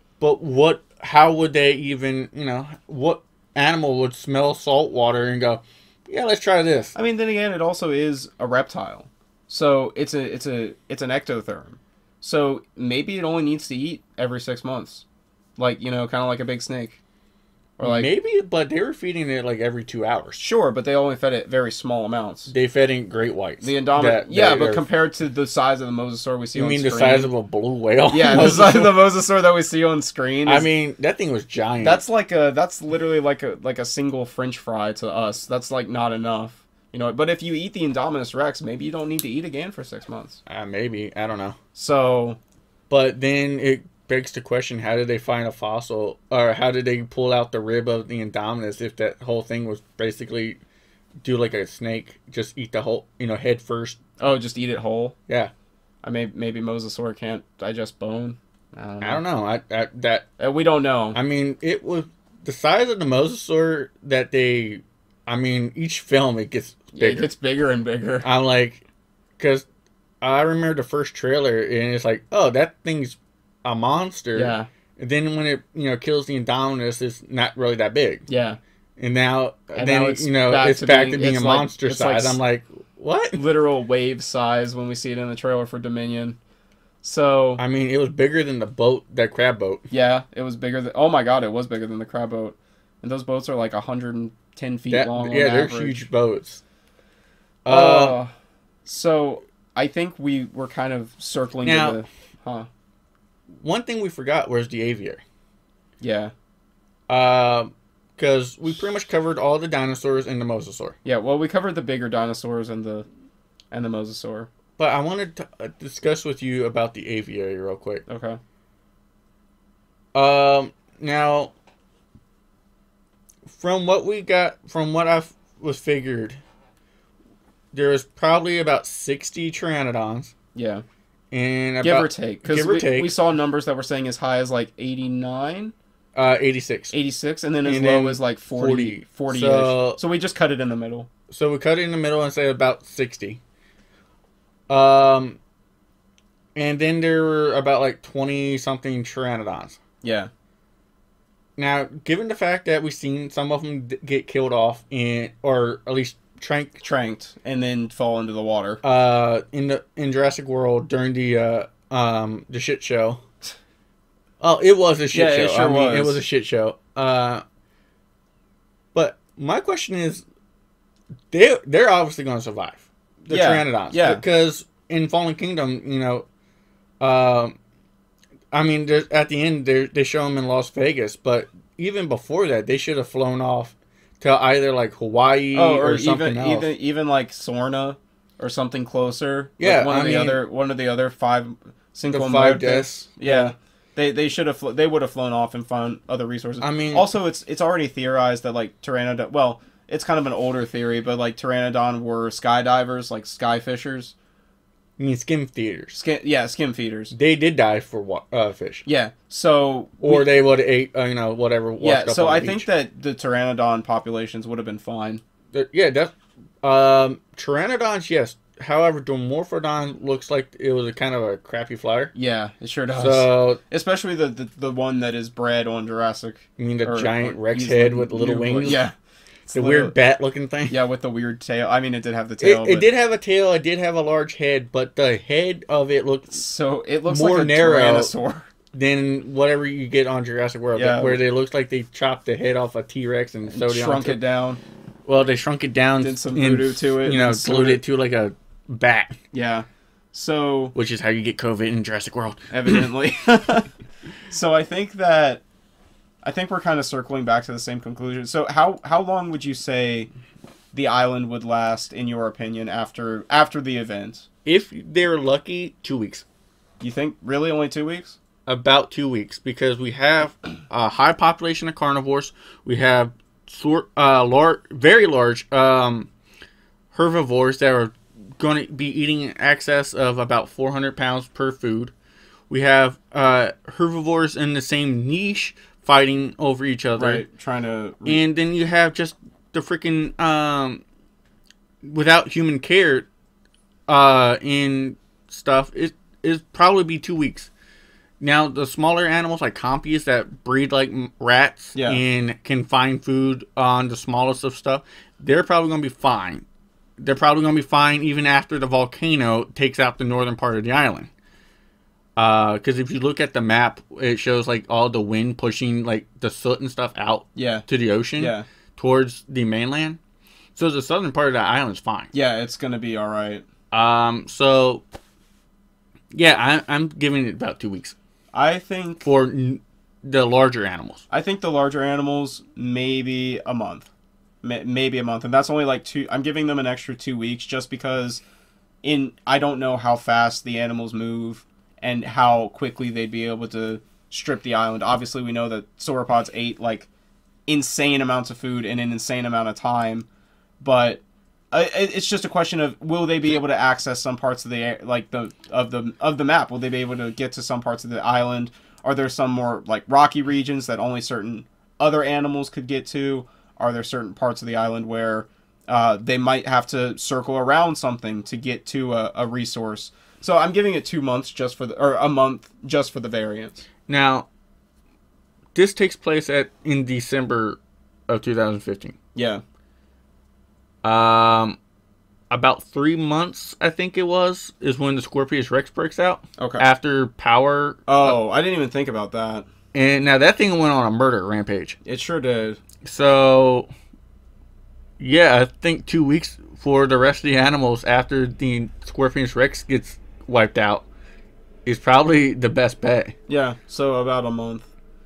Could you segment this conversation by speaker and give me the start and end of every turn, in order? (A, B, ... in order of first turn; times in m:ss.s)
0:00.2-0:06.9 A
0:06.9-0:15.0 B
0:15.6-0:17.0 B
0:17.8-0:18.1 B
0:17.8-0:20.4 A
0:20.4-0:22.5 B
0:22.5-0:24.8 A
0:23.6-0:27.3 B
0:26.5-0:28.9 A
0:28.1-0:30.7 B
0:30.4-0:32.0 A
0:31.8-0:40.4 B
0:40.5-0:41.6 A
0:41.7-0:42.4 B
0:42.9-0:50.6 A
0:51.2-0:54.0 A
0:54.2-0:55.1 B
0:56.0-0:59.2 B
0:59.0-1:00.3 A
1:00.4-1:01.2 B
1:01.1-1:07.3 A
1:07.0-1:08.3 B
1:08.2-1:08.8 A
1:09.4-1:09.6 A
1:10.2-1:18.2 A
1:14.3-1:14.7 B
1:18.3-1:18.6 B
1:19.0-1:23.4 A
1:19.7-1:22.4 B
1:23.3-1:26.4 B
1:27.0-1:27.6 B
1:27.6-1:29.9 A
1:29.9-1:36.0 B
1:34.9-1:36.6 A
1:37.6-1:38.2 A
1:37.7-1:38.3 B
1:38.8-1:42.7 B
1:41.6-1:42.0 A
1:43.6-1:45.2 A
1:46.0-1:46.3 B
1:47.1-1:51.0 A
1:51.0-1:53.0 B
1:53.7-1:54.5 B
1:54.8-1:58.0 A
1:58.1-1:58.4 B
2:00.1-2:01.5 A
2:03.4-2:06.4 A
2:07.7-2:10.3 A
2:10.5-2:10.8 B
2:11.3-2:13.1 A
2:11.8-2:15.7 B
2:16.1-2:16.9 A
2:16.9-2:21.1 B
2:17.6-2:20.0 A
2:21.3-2:23.4 A
2:24.7-2:25.4 A
2:26.5-2:29.8 A
2:30.0-2:30.3 B
2:31.6-2:36.8 A
2:36.8-2:38.8 B
2:38.8-2:43.2 A
2:44.4-2:47.4 A
2:45.1-2:46.2 B
2:48.9-2:50.2 A
2:51.3-2:56.2 A
2:53.3-2:54.2 B
2:57.0-2:57.6 A
2:58.5-3:06.7 A
3:05.5-3:24.1 B
3:09.6-3:10.4 A
3:12.1-3:13.5 A
3:16.6-3:17.1 A
3:25.0-3:26.0 A
3:25.9-3:27.1 B
3:27.1-3:28.8 A
3:28.8-3:30.3 B
3:30.0-3:32.7 A
3:31.8-3:35.2 B
3:35.5-3:42.1 A
3:42.1-3:48.9 B
3:42.9-3:43.6 A
3:46.6-3:48.8 A
3:49.5-3:49.9 B
3:49.5-3:50.8 A
3:50.7-3:52.9 B
3:52.4-3:56.4 A
3:56.3-3:58.5 B
3:57.1-3:58.1 A
3:58.7-4:04.2 A
4:00.7-4:01.2 B
4:03.5-4:04.6 B
4:05.0-4:09.2 A
4:06.0-4:07.8 B
4:09.3-4:10.7 B
4:10.7-4:12.8 A
4:12.5-4:13.7 B
4:14.3-4:15.4 B
4:16.2-4:20.1 B
4:20.7-4:24.3 B
4:24.4-4:26.2 A
4:26.8-4:28.2 B
4:28.4-4:36.1 A
4:36.9-4:41.9 A
4:42.5-4:47.2 A
4:47.0-4:48.2 B
4:48.0-4:50.8 A
4:51.8-4:53.1 A
4:53.9-4:57.5 A
4:58.2-5:06.4 A
5:01.7-5:02.0 B
5:07.0-5:11.1 A
5:12.2-5:20.0 A
5:17.4-5:17.6 B
5:18.2-5:18.4 B
5:20.5-5:22.1 A
5:22.1-5:23.4 B
5:23.7-5:24.8 A
5:26.1-5:28.0 A
5:28.3-5:29.0 B
5:29.0-5:31.0 A
5:31.1-5:33.9 B
5:34.4-5:38.2 B
5:38.8-5:46.9 B
5:47.5-5:50.1 B
5:50.6-6:13.6 B
6:13.9-6:14.3 A
6:15.5-6:18.9 A
6:19.1-6:19.4 B
6:20.8-6:21.6 A
6:22.3-6:28.2 A
6:26.4-6:26.7 B
6:27.9-6:29.5 B
6:29.7-6:31.8 A
6:31.8-6:32.6 B
6:32.8-6:33.7 A
6:35.0-6:40.8 A
6:41.6-6:43.1 A
6:43.3-6:44.7 B